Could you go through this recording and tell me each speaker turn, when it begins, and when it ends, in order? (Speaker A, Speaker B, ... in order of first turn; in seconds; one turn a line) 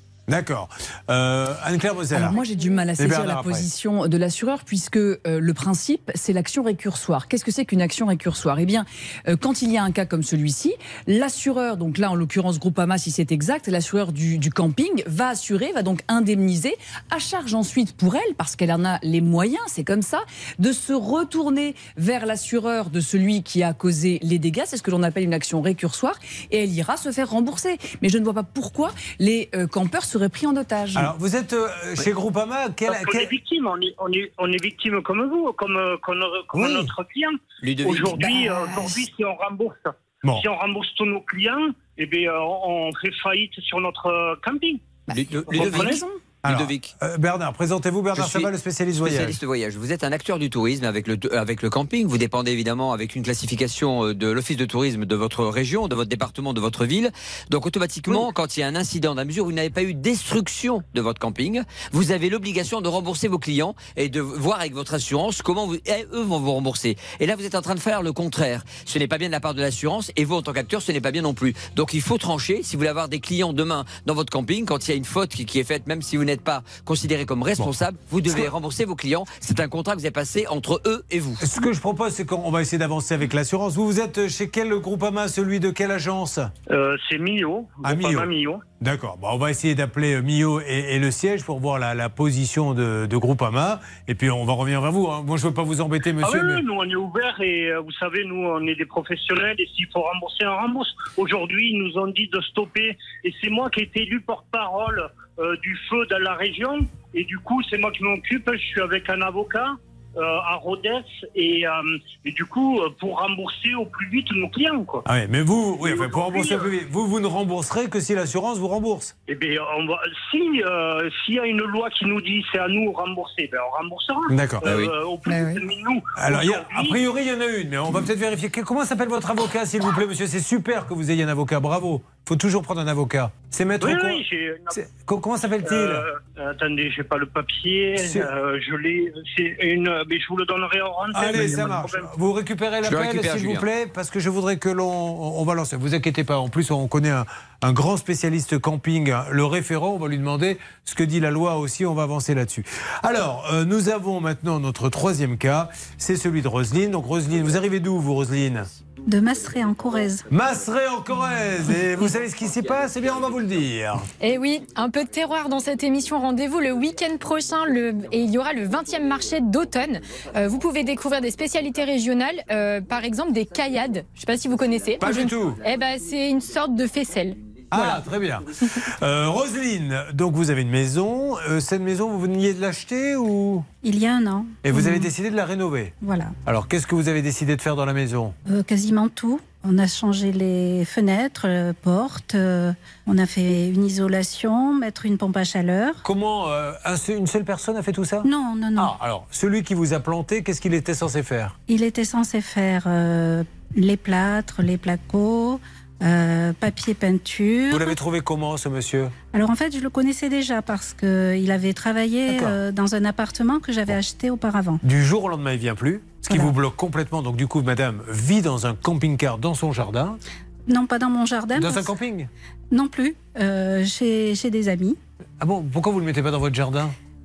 Speaker A: 0.3-2.4
Speaker B: 2.1-31.1
Speaker A: 3.0-3.6
Speaker A: 30.9-33.3
Speaker C: 32.9-44.8
Speaker A: 36.5-36.9
Speaker D: 37.6-39.0
Speaker D: 45.1-46.9
Speaker A: 45.4-49.4
Speaker C: 45.5-46.0
Speaker B: 45.6-46.0
Speaker D: 48.1-81.4
Speaker A: 81.4-86.5
Speaker C: 86.7-88.6
Speaker A: 87.8-96.6
Speaker C: 96.2-115.0
Speaker A: 115.0-119.1
Speaker C: 115.8-116.7
Speaker C: 119.3-127.0
Speaker A: 124.3-124.9
Speaker A: 126.2-136.0
Speaker C: 133.8-134.8
Speaker C: 135.6-142.1
Speaker A: 138.0-138.3
Speaker A: 141.1-158.7
Speaker D: 142.8-143.7
Speaker E: 159.1-160.2
Speaker A: 160.3-164.1
Speaker F: 164.2-178.0
Speaker A: 175.0-175.6
Speaker A: 177.7-178.5
Speaker A: 179.0-183.7
Speaker E: 183.8-185.1
Speaker A: 184.6-185.9
Speaker E: 186.0-186.3
Speaker A: 186.4-188.3
Speaker E: 188.5-196.0
Speaker A: 196.0-201.5
Speaker E: 198.2-198.9
Speaker E: 201.7-207.9
Speaker A: 207.7-209.1
Speaker E: 209.3-214.8
Speaker A: 212.3-212.6
Speaker A: 214.8-220.2
Speaker E: 216.3-216.5
Speaker E: 220.7-221.9
Speaker A: 221.5-222.3
Speaker E: 222.7-225.0
Speaker A: 225.4-226.9